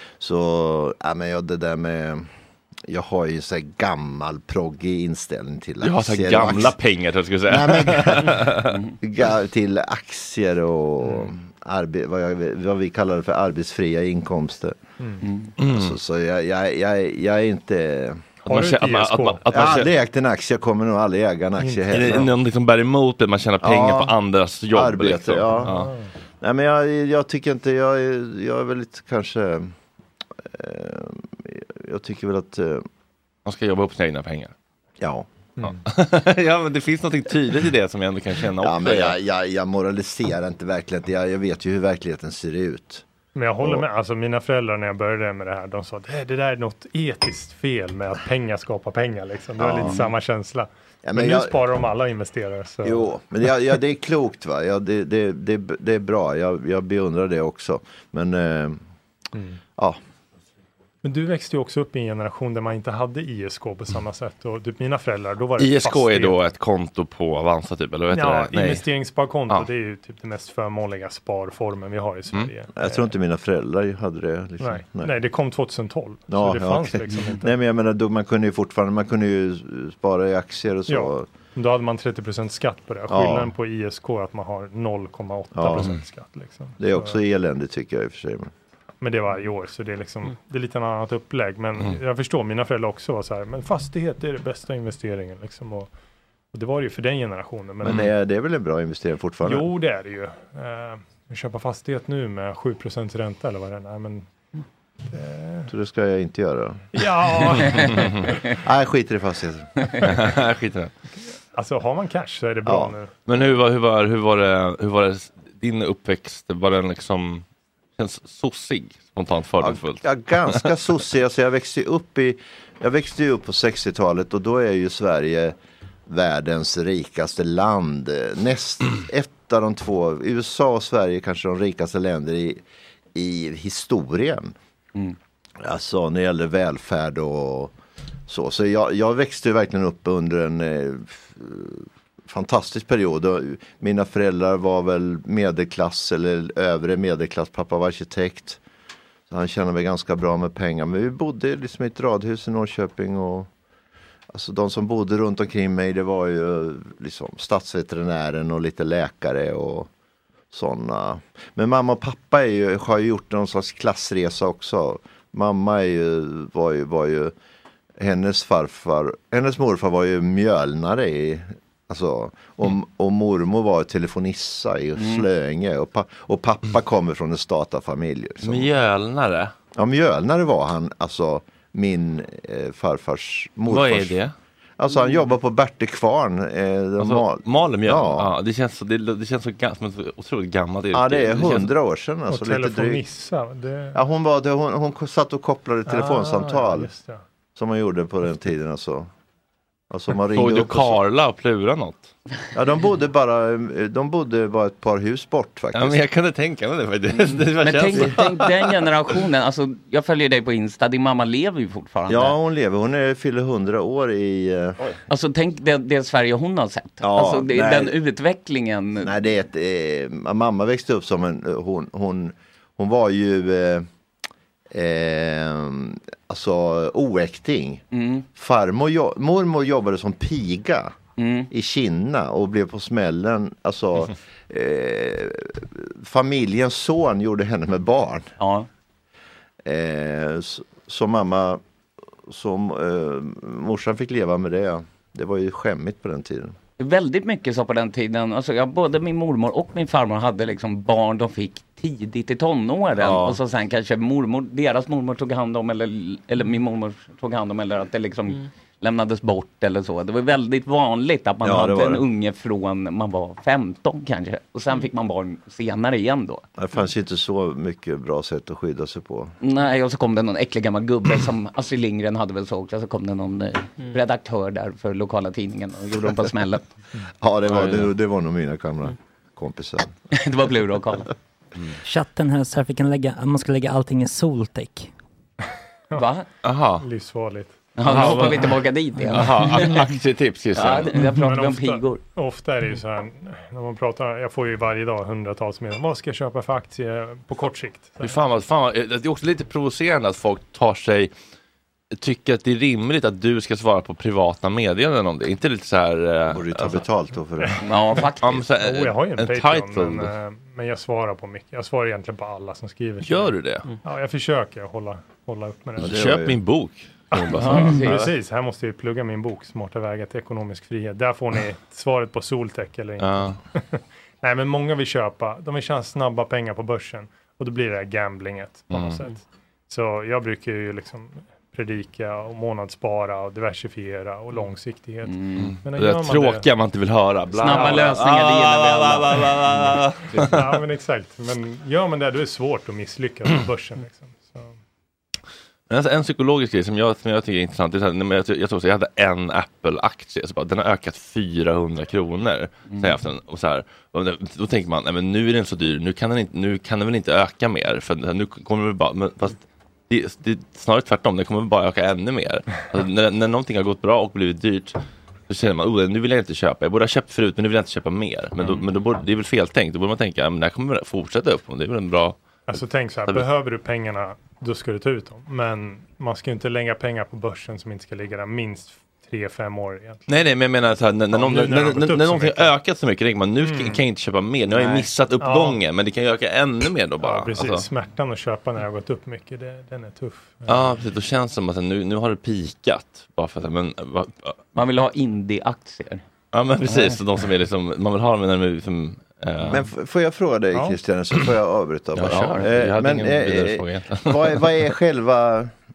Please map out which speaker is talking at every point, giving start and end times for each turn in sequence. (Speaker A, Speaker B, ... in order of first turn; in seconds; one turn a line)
Speaker A: 0.2-2.3
Speaker A: 2.9-6.8
Speaker B: 5.8-8.7
Speaker A: 7.5-14.8
Speaker C: 15.0-15.2
Speaker D: 15.2-15.5
Speaker B: 15.6-15.9
Speaker A: 15.6-18.3
Speaker C: 18.4-19.6
Speaker B: 18.5-19.9
Speaker A: 19.5-22.3
Speaker C: 21.6-22.3
Speaker B: 21.9-25.9
Speaker A: 23.6-24.1
Speaker A: 24.7-25.8
Speaker C: 25.6-26.1
Speaker A: 26.4-29.7
Speaker A: 30.4-32.8
Speaker B: 33.5-34.5
Speaker A: 35.0-35.3
Speaker C: 35.6-35.8
Speaker B: 35.7-39.2
Speaker A: 38.6-43.0
Speaker C: 43.3-53.1
Speaker A: 49.6-50.0
Speaker A: 51.0-51.6
Speaker A: 52.8-58.8
Speaker C: 61.0-66.4
Speaker B: 65.6-68.8
Speaker C: 68.1-73.1
Speaker A: 72.7-75.1
Speaker C: 74.6-77.5
Speaker A: 76.3-81.3
Speaker C: 80.9-87.2
Speaker A: 83.1-83.5
Speaker A: 85.5-85.9
Speaker A: 86.8-88.5
Speaker C: 89.0-95.9
Speaker C: 96.5-98.1
Speaker A: 97.8-99.7
Speaker C: 99.4-104.3
Speaker C: 105.1-105.7
Speaker A: 105.7-106.8
Speaker C: 106.9-108.3
Speaker B: 107.8-108.2
Speaker A: 108.6-109.7
Speaker B: 110.0-110.9
Speaker C: 111.5-113.2
Speaker A: 112.7-112.9
Speaker B: 113.3-117.4
Speaker B: 118.0-120.6
Speaker A: 119.6-125.5
Speaker A: 126.1-132.6
Speaker A: 133.1-134.6
Speaker A: 135.6-137.7
Speaker A: 138.3-148.6
Speaker A: 149.3-153.5
Speaker A: 154.3-159.9
Speaker A: 160.5-167.3
Speaker A: 168.0-178.7
Speaker D: 174.9-175.2
Speaker B: 178.4-179.5
Speaker A: 179.7-184.2
Speaker B: 183.7-184.3
Speaker A: 184.8-188.3
Speaker B: 187.0-191.7
Speaker A: 190.9-193.0
Speaker C: 192.3-194.0
Speaker A: 193.9-196.9
Speaker C: 195.9-197.2
Speaker A: 197.6-199.1
Speaker A: 199.9-201.0
Speaker B: 200.3-202.1
Speaker A: 202.5-206.0
Speaker B: 205.7-208.4
Speaker D: 207.6-212.3
Speaker A: 207.9-208.2
Speaker A: 212.1-214.9
Speaker D: 215.1-219.1
Speaker A: 217.0-217.9
Speaker A: 219.0-223.9
Speaker A: 224.7-227.8
Speaker D: 227.9-228.2
Speaker A: 228.3-230.9
Speaker D: 231.2-231.5
Speaker A: 231.5-238.3
Speaker D: 238.4-238.7
Speaker A: 239.6-241.6
Speaker A: 242.3-246.6
Speaker D: 246.8-266.4
Speaker A: 253.0-253.4
Speaker A: 261.4-262.1
Speaker A: 266.6-269.4
Speaker D: 269.4-276.7
Speaker A: 277.2-279.9
Speaker B: 277.5-277.9
Speaker D: 280.1-281.1
Speaker E: 281.8-284.9
Speaker D: 285.9-286.3
Speaker B: 286.4-286.8
Speaker C: 286.8-288.3
Speaker D: 287.8-289.9
Speaker B: 287.8-288.6
Speaker B: 289.1-291.1
Speaker D: 290.6-292.0
Speaker C: 291.2-298.1
Speaker B: 298.0-301.1
Speaker B: 301.9-306.8
Speaker A: 306.3-307.6
Speaker D: 307.6-308.4
Speaker B: 308.2-310.1
Speaker C: 308.6-316.0
Speaker B: 313.1-313.6
Speaker A: 315.8-316.4
Speaker B: 315.8-318.1
Speaker C: 317.1-336.5
Speaker D: 317.4-318.1
Speaker B: 323.0-323.4
Speaker B: 328.7-329.0
Speaker D: 335.0-335.4
Speaker B: 335.4-340.4
Speaker D: 337.4-339.8
Speaker C: 337.4-337.9
Speaker C: 340.2-344.6
Speaker B: 345.7-364.8
Speaker B: 365.3-372.2
Speaker C: 372.5-380.1
Speaker B: 380.1-387.7
Speaker C: 381.1-382.5
Speaker C: 383.4-383.8
Speaker C: 384.6-385.6
Speaker C: 387.0-390.7
Speaker B: 390.5-394.4
Speaker D: 394.5-396.0
Speaker B: 396.3-399.7
Speaker C: 396.6-396.9
Speaker D: 396.6-396.9
Speaker A: 399.4-405.5
Speaker B: 401.9-404.7